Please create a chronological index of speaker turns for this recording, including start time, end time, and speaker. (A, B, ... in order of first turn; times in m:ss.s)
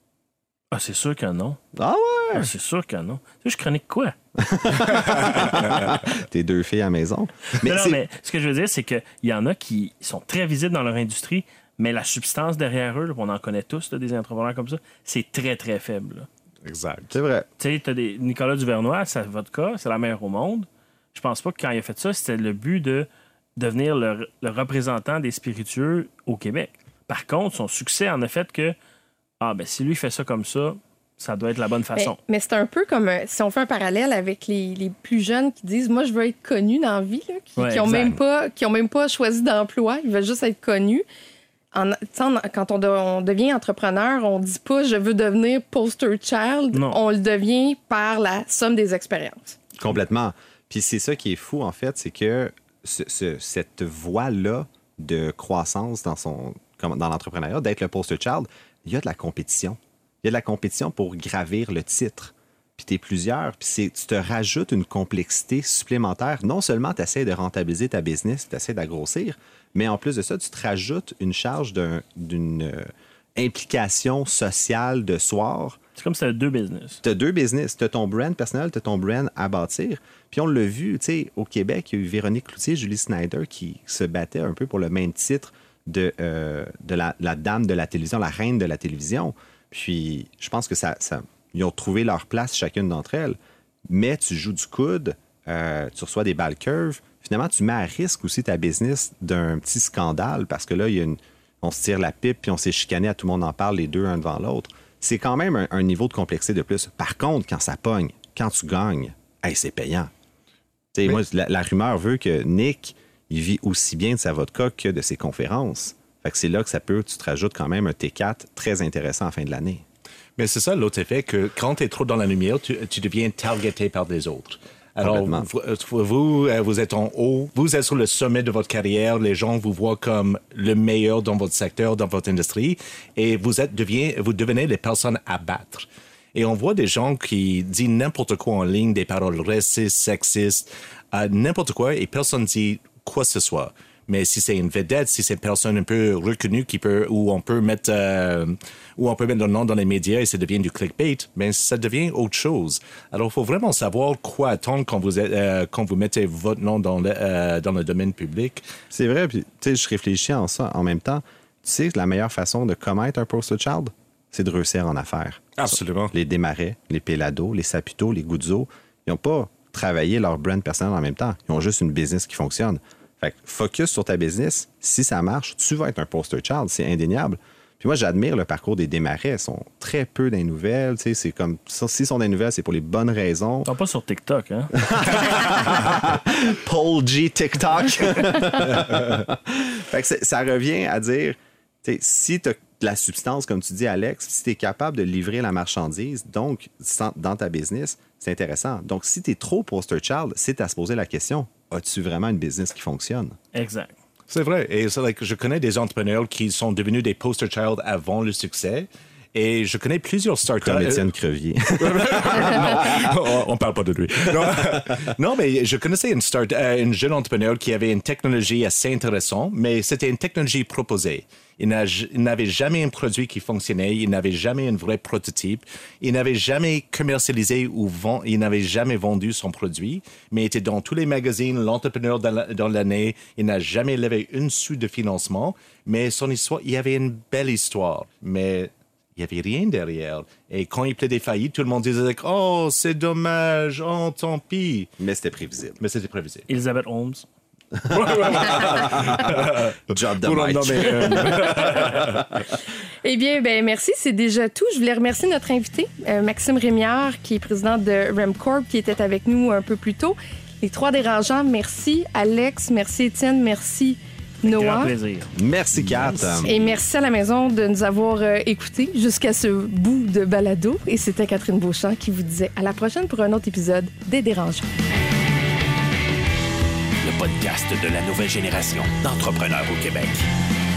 0:00.7-0:01.6 A
0:01.7-0:02.5 B
0:02.3-0:04.1 A
0:04.4-0:08.0 B
0:07.6-0:16.3 A
0:16.6-0:17.1 C
0:17.1-0:17.5 B
0:17.6-0:28.7 A
0:29.4-0:32.2 A
0:31.9-0:41.0 D
0:37.6-0:38.2 A
0:41.7-0:49.6 D
0:46.7-0:47.0 A
0:49.8-1:15.8 B
1:16.0-1:17.0 A
1:17.0-1:50.1 B
1:50.9-1:59.8 B
2:00.4-2:38.6 C
2:05.0-2:05.5 B
2:38.9-3:03.7 B
2:45.6-2:46.1 C
3:03.6-3:04.7 A
3:04.7-3:23.4 B
3:23.5-3:24.0 A
3:24.3-3:31.0 C
3:30.6-3:33.1 B
3:31.7-4:04.9 C
3:34.4-3:35.0 B
4:05.0-4:05.8 B
4:05.8-4:06.5 C
4:06.5-4:07.2 A
4:07.7-4:11.8 B
4:07.9-4:12.4 C
4:13.0-4:24.9 D
4:24.4-4:25.3 A
4:25.4-4:26.6 B
4:26.2-4:26.4 A
4:26.4-4:34.7 D
4:37.0-4:40.2 E